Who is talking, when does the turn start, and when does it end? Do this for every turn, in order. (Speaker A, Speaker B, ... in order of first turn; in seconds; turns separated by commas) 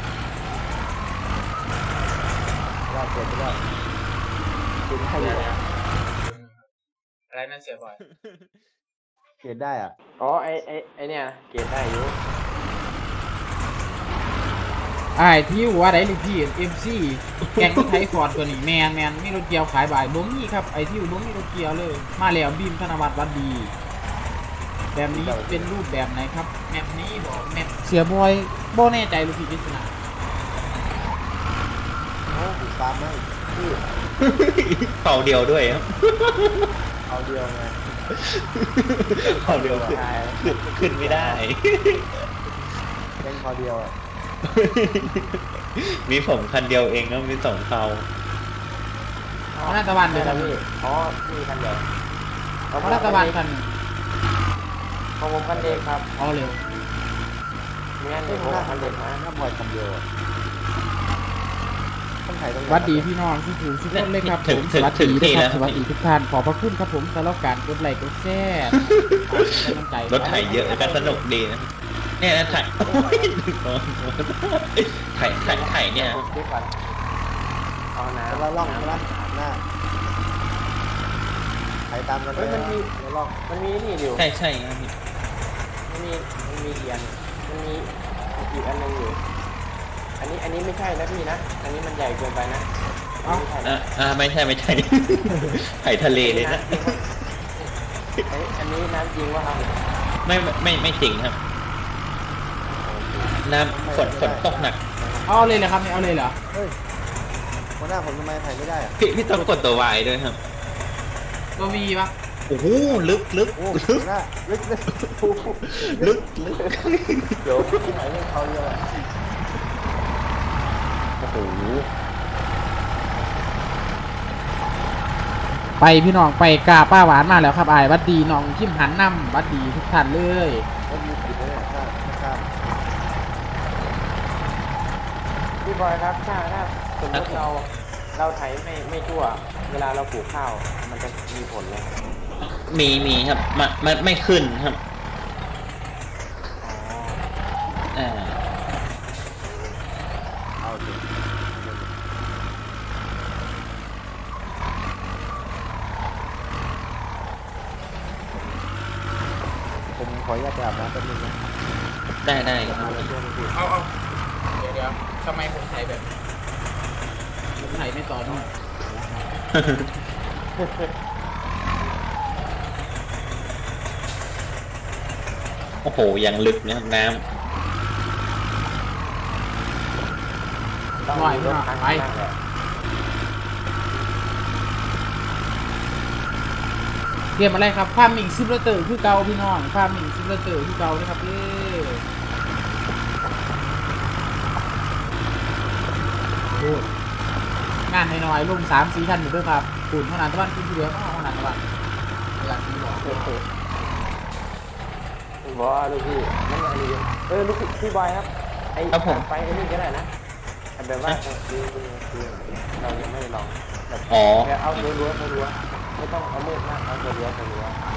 Speaker A: 2.9-3.6, Speaker B: 3.2-4.0, Speaker A: 4.9-5.5, Speaker C: 5.1-5.6, Speaker C: 6.1-6.7, Speaker C: 7.3-8.0, Speaker B: 7.9-8.7, Speaker A: 9.4-9.9, Speaker D: 10.2-12.2, Speaker C: 15.2-23.7, Speaker B: 17.4-18.1, Speaker C: 24.9-30.0, Speaker A: 25.1-25.7, Speaker A: 32.3-33.8, Speaker B: 34.2-36.7, Speaker A: 37.1-37.8, Speaker B: 38.1-42.3, Speaker A: 39.2-40.0, Speaker D: 39.3-41.4, Speaker A: 43.2-43.9, Speaker B: 44.4-48.1, Speaker D: 49.5-51.9, Speaker C: 49.6-50.6, Speaker D: 52.7-53.4, Speaker C: 52.8-53.8, Speaker D: 55.2-56.1, Speaker A: 55.5-55.9, Speaker C: 56.2-56.6, Speaker D: 58.0-59.2, Speaker A: 58.3-60.1, Speaker A: 62.3-63.1, Speaker C: 62.7-70.9, Speaker B: 63.9-65.8, Speaker B: 68.9-76.3, Speaker D: 70.1-71.2, Speaker D: 72.4-73.2, Speaker A: 72.8-73.3, Speaker D: 75.3-76.7, Speaker D: 78.0-79.3, Speaker A: 78.3-79.6, Speaker A: 81.9-83.4, Speaker D: 82.3-82.9, Speaker D: 83.5-84.3, Speaker B: 84.2-84.9, Speaker D: 85.9-89.2, Speaker D: 90.2-92.7, Speaker D: 93.2-93.8, Speaker B: 93.6-97.0, Speaker D: 96.2-97.0, Speaker D: 98.3-99.7, Speaker B: 100.2-101.4, Speaker A: 102.8-105.6, Speaker B: 103.4-104.8, Speaker C: 105.3-106.4, Speaker A: 106.5-106.8, Speaker A: 107.8-109.0, Speaker B: 109.0-110.4, Speaker C: 111.6-112.1, Speaker B: 112.5-114.0, Speaker A: 112.9-115.0, Speaker B: 114.9-117.4, Speaker D: 115.2-116.9, Speaker D: 117.4-118.0, Speaker A: 117.7-118.9, Speaker D: 121.2-121.9, Speaker C: 125.8-130.7, Speaker A: 130.9-132.5, Speaker D: 135.6-141.9, Speaker B: 137.1-137.5, Speaker B: 142.7-144.8, Speaker B: 147.9-148.4, Speaker A: 150.6-151.9, Speaker A: 159.9-161.4, Speaker B: 162.2-163.1, Speaker D: 162.6-163.6, Speaker A: 162.6-163.1, Speaker C: 163.5-163.9, Speaker C: 164.6-166.2, Speaker C: 167.6-169.3, Speaker B: 169.5-169.9, Speaker D: 170.6-170.9, Speaker B: 175.8-177.2, Speaker D: 181.0-182.4, Speaker C: 181.1-182.1, Speaker C: 187.4-192.0, Speaker C: 196.5-196.9, Speaker C: 197.9-201.6, Speaker C: 202.4-203.3, Speaker D: 203.0-203.4, Speaker D: 205.4-210.1, Speaker B: 208.9-209.2, Speaker D: 210.8-217.8, Speaker B: 214.1-214.9